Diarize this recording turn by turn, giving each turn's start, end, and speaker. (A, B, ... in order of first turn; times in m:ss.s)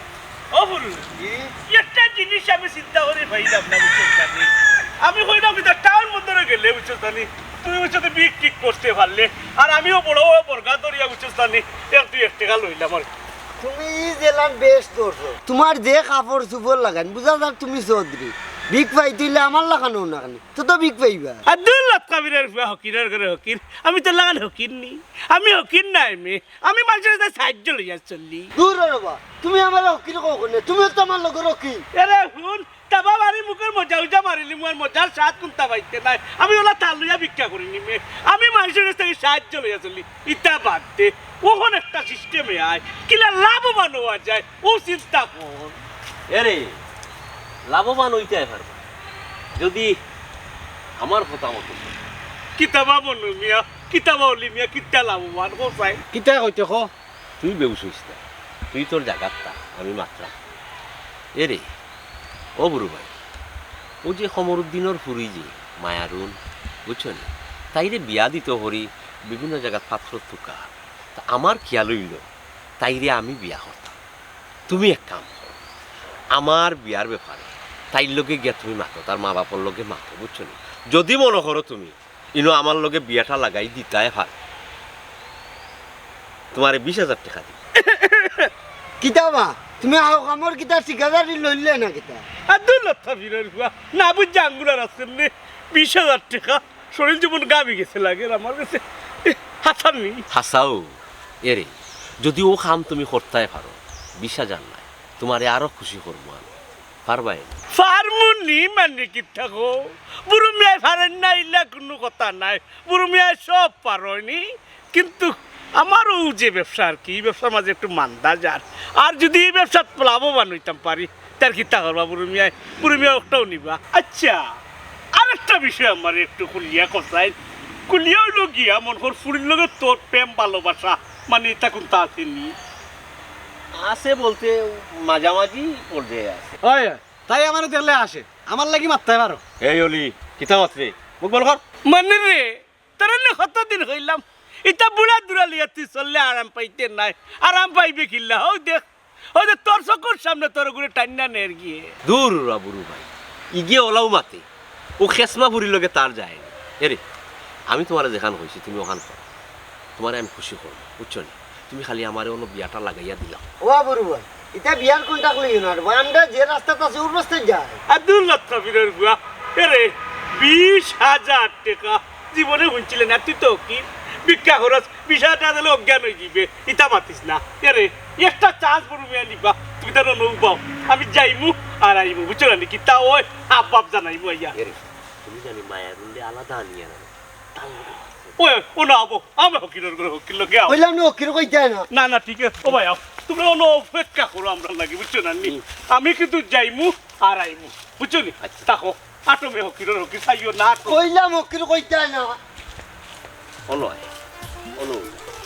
0:00.5-0:01.1 A
0:01.2-0:01.4 B
0:01.6-0:13.1 A
0:13.6-0:21.4 C
0:21.5-0:28.5 A
0:28.6-0:31.8 C
0:31.9-0:45.8 A
0:46.3-0:46.7 D
0:47.7-0:48.8 D
0:49.5-0:49.9 D
0:51.0-0:52.0 D
0:52.6-0:56.0 A
0:56.1-0:56.9 B
0:57.4-0:58.2 D
0:58.7-1:00.3 D
1:01.4-1:01.6 D
1:02.6-1:03.1 D
1:04.0-1:12.2 D
1:12.8-1:13.9 D
1:14.7-1:15.6 D
1:16.3-1:24.3 D
1:26.5-1:27.6 D
1:27.8-1:28.5 A
1:29.0-1:32.2 C
1:32.5-1:40.2 A
1:40.3-1:41.7 D
1:42.2-1:46.5 D
1:47.0-1:47.6 D
1:47.7-1:54.4 A
1:54.9-2:04.4 A
2:05.1-2:07.3 A
2:07.9-2:12.5 A
2:13.7-2:16.6 D
2:16.6-2:19.4 B
2:19.6-2:21.0 D
2:21.2-2:21.6 B
2:21.8-2:28.8 A
2:29.3-2:31.9 A
2:32.0-2:34.4 D
2:35.0-2:37.0 D
2:37.7-2:39.2 D
2:40.0-2:43.4 D
2:43.6-2:47.8 C
2:47.9-3:04.5 A
3:04.5-3:08.3 D
3:08.4-3:10.8 A
3:10.7-3:11.8 C
3:11.9-3:21.0 A
3:18.4-3:18.7 D
3:20.8-3:22.4 C
3:23.7-3:24.1 D
3:24.8-3:25.2 D